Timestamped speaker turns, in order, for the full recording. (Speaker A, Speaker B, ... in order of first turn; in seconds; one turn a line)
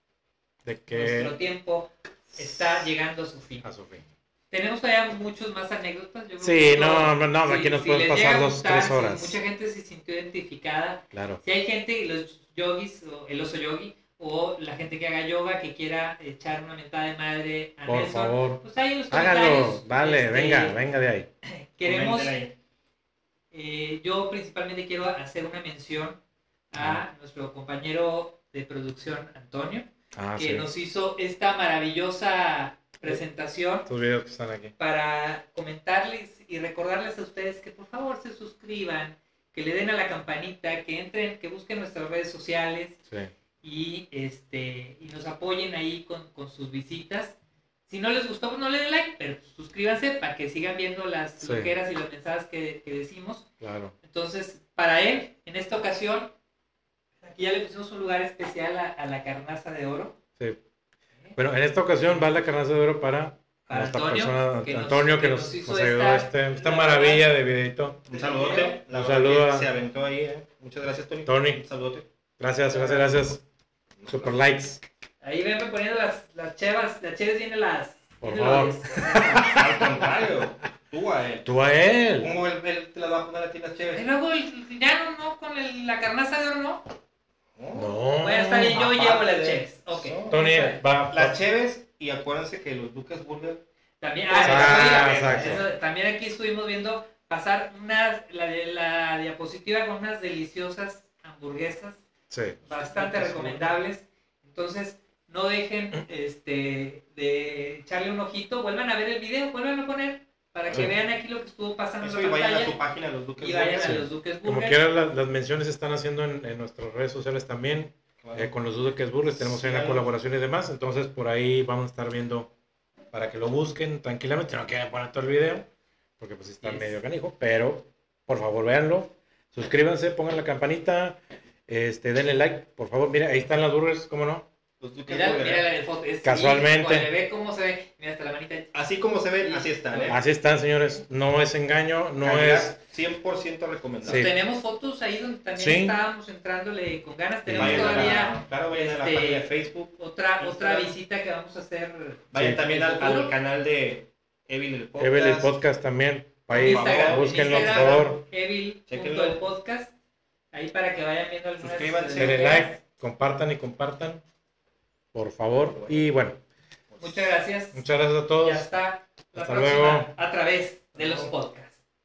Speaker A: 0.6-1.4
Speaker B: 0.9-3.6
Speaker A: 2.3-2.9
Speaker A: 3.6-4.1
Speaker B: 4.5-20.9
Speaker A: 6.4-9.4
Speaker A: 11.1-11.4
Speaker A: 17.9-21.3
Speaker B: 21.4-22.4
Speaker C: 21.8-22.5
Speaker B: 23.5-26.2
Speaker B: 26.7-33.9
Speaker A: 26.8-27.0
Speaker A: 30.1-30.7
Speaker A: 33.9-34.7
Speaker B: 34.8-43.0
Speaker B: 43.6-47.4
Speaker B: 47.9-53.5
Speaker A: 51.4-51.7
Speaker A: 53.6-53.9
Speaker B: 54.0-56.3
Speaker B: 57.2-60.2
Speaker A: 61.4-68.1
Speaker B: 63.7-67.3
Speaker C: 68.1-72.1
Speaker B: 68.1-68.8
Speaker A: 68.9-69.7
Speaker A: 71.2-71.6
Speaker A: 72.4-73.4
Speaker B: 72.7-73.0
Speaker C: 74.0-74.3
Speaker A: 74.1-74.8
Speaker B: 75.2-79.5
Speaker A: 78.2-80.0
Speaker C: 79.4-81.5
Speaker A: 81.4-82.3
Speaker C: 82.2-84.0
Speaker B: 83.9-86.8
Speaker C: 87.5-87.9
Speaker A: 87.7-88.9
Speaker B: 88.2-90.8
Speaker C: 88.7-90.4
Speaker A: 90.3-91.4
Speaker C: 91.1-93.6
Speaker B: 94.0-102.0
Speaker C: 94.3-95.6
Speaker A: 94.3-95.6
Speaker A: 102.3-102.6
Speaker B: 102.6-112.7
Speaker C: 102.7-103.8
Speaker C: 112.0-114.0
Speaker B: 113.4-114.8
Speaker A: 113.8-122.5
Speaker C: 118.2-118.5
Speaker C: 119.3-120.0
Speaker A: 123.1-134.5
Speaker B: 126.6-127.0
Speaker C: 134.8-135.7
Speaker B: 135.1-138.7
Speaker A: 136.2-137.1
Speaker C: 138.7-140.2
Speaker B: 139.4-140.2
Speaker A: 140.1-142.8
Speaker C: 142.2-144.3
Speaker A: 144.0-144.3
Speaker B: 144.0-153.3
Speaker A: 145.6-146.0
Speaker A: 147.4-148.3
Speaker C: 147.6-150.9
Speaker C: 152.3-155.5
Speaker A: 152.3-152.6
Speaker A: 155.0-158.2
Speaker C: 156.5-158.1
Speaker B: 156.5-159.9
Speaker C: 158.9-159.4
Speaker B: 160.5-162.8
Speaker C: 161.6-162.7
Speaker A: 162.2-164.2
Speaker A: 165.1-166.4
Speaker C: 165.5-166.1
Speaker C: 166.9-167.3
Speaker B: 167.0-167.8
Speaker A: 167.7-168.7
Speaker B: 168.4-171.8
Speaker A: 169.3-170.1
Speaker C: 170.9-171.3